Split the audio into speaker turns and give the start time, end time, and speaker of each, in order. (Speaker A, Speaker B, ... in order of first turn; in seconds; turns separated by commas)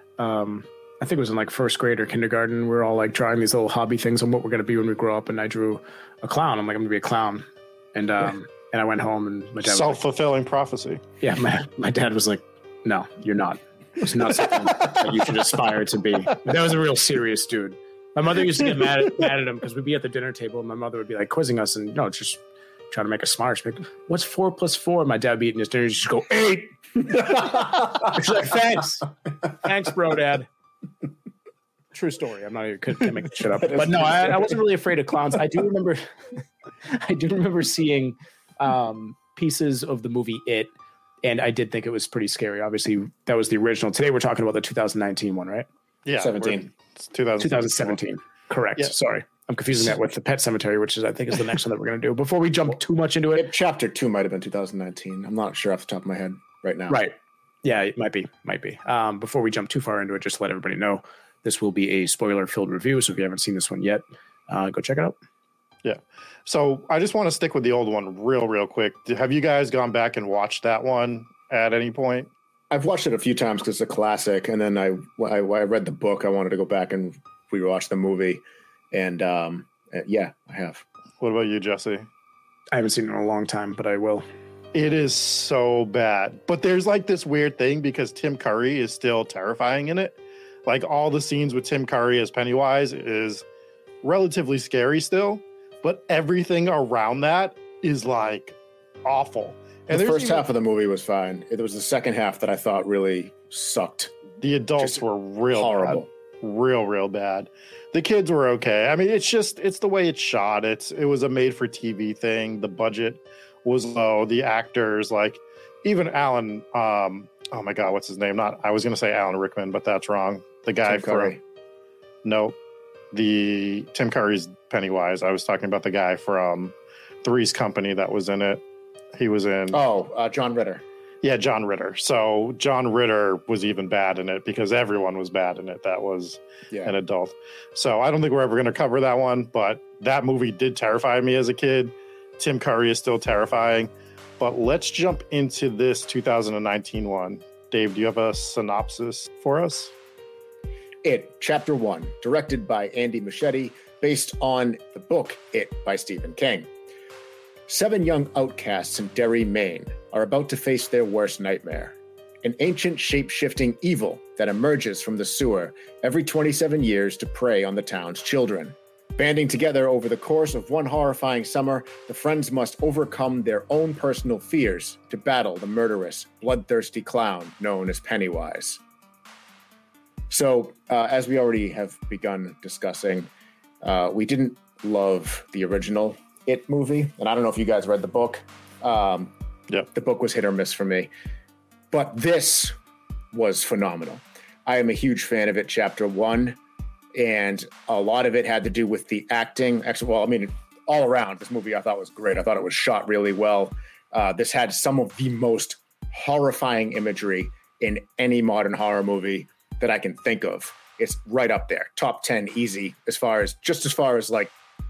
Speaker A: 0.2-10.0, Speaker B: 9.6-11.0, Speaker A: 11.2-30.5, Speaker C: 27.3-27.6, Speaker A: 31.9-45.7, Speaker C: 33.6-34.5, Speaker B: 46.0-48.0, Speaker C: 46.2-46.7, Speaker A: 47.4-53.5, Speaker C: 53.3-57.0, Speaker A: 56.9-65.2, Speaker B: 65.8-72.3, Speaker C: 72.7-80.8, Speaker B: 81.2-82.1, Speaker A: 82.7-84.2, Speaker B: 84.7-93.4, Speaker B: 94.0-100.4, Speaker C: 99.9-104.1, Speaker B: 104.4-121.4, Speaker C: 105.5-106.1, Speaker C: 120.8-121.4, Speaker B: 122.2-122.5, Speaker B: 123.1-128.6, Speaker B: 129.1-129.8, Speaker C: 129.7-130.8, Speaker B: 131.2-149.9, Speaker C: 151.0-156.7, Speaker C: 157.7-178.8, Speaker C: 180.3-183.3, Speaker C: 183.8-189.3, Speaker C: 189.9-191.1, Speaker C: 191.9-192.7, Speaker C: 193.3-196.6, Speaker C: 197.1-214.5